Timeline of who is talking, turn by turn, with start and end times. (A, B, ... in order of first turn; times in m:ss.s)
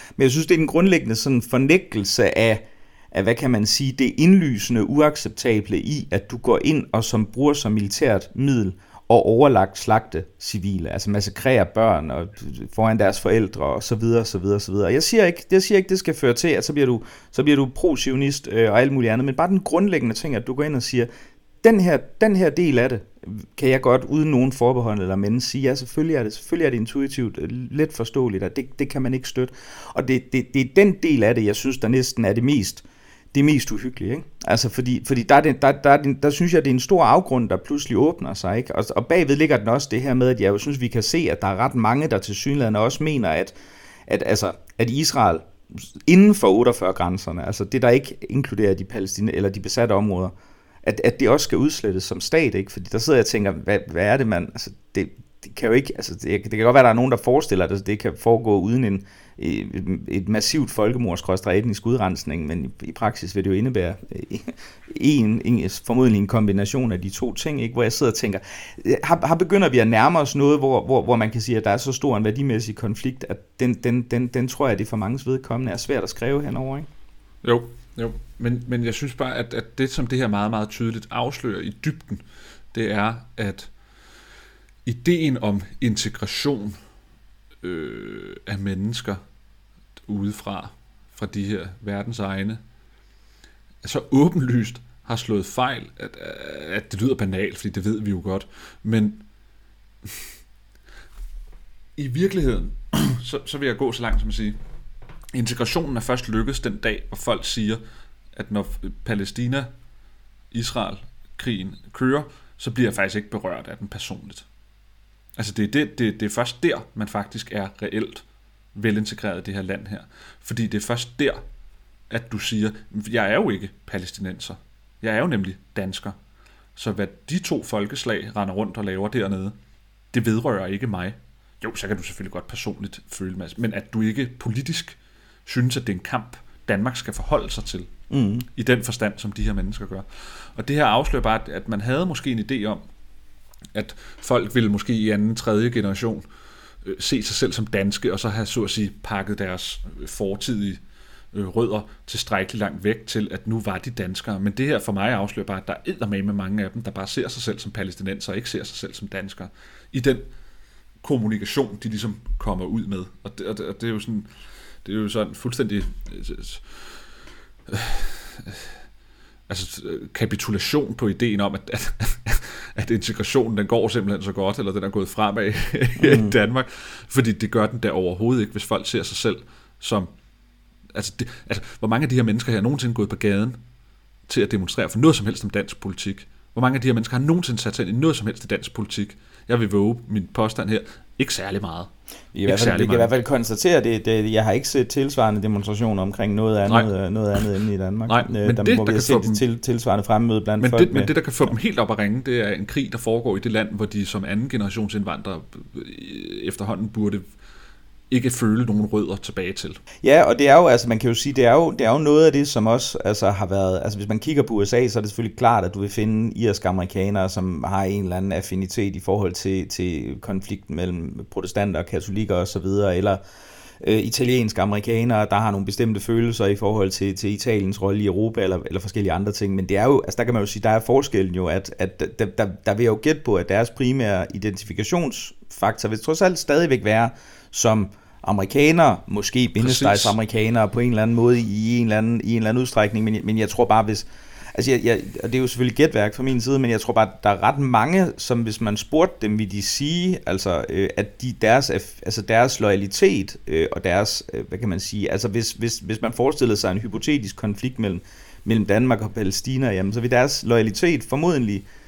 0:00.2-0:21.1 A
0:21.6-0:43.5 A
0:44.1-0:45.5 A
0:46.1-0:50.3 A
0:50.8-1:16.9 A
1:17.4-1:23.7 B
1:24.8-1:26.8 B
1:27.6-1:29.2 B
1:30.0-1:32.6 B
1:33.8-1:39.2 B
1:42.0-1:44.6 B
1:45.3-1:47.8 B
1:48.3-1:49.7 B
1:50.5-1:54.5 B
1:55.4-1:58.2 B
1:58.7-2:01.4 B
2:02.1-2:06.1 B
2:06.8-2:09.6 B
2:10.1-2:17.9 B
2:18.1-2:18.4 A
2:18.5-2:22.8 B
2:23.7-2:26.2 B
2:26.8-2:40.3 B
2:41.0-2:44.3 B
2:44.8-2:47.0 B
2:47.7-2:48.8 B
2:49.5-3:00.1 B
2:56.0-2:56.3 A
3:00.9-3:03.6 B
3:04.3-3:11.9 B
3:12.3-3:21.1 A
3:12.4-3:13.1 B
3:16.7-3:17.4 B
3:18.1-3:19.4 B
3:20.6-3:27.3 B
3:28.1-3:29.8 B
3:30.0-3:43.2 A
3:43.8-4:21.6 A
3:59.6-4:00.2 B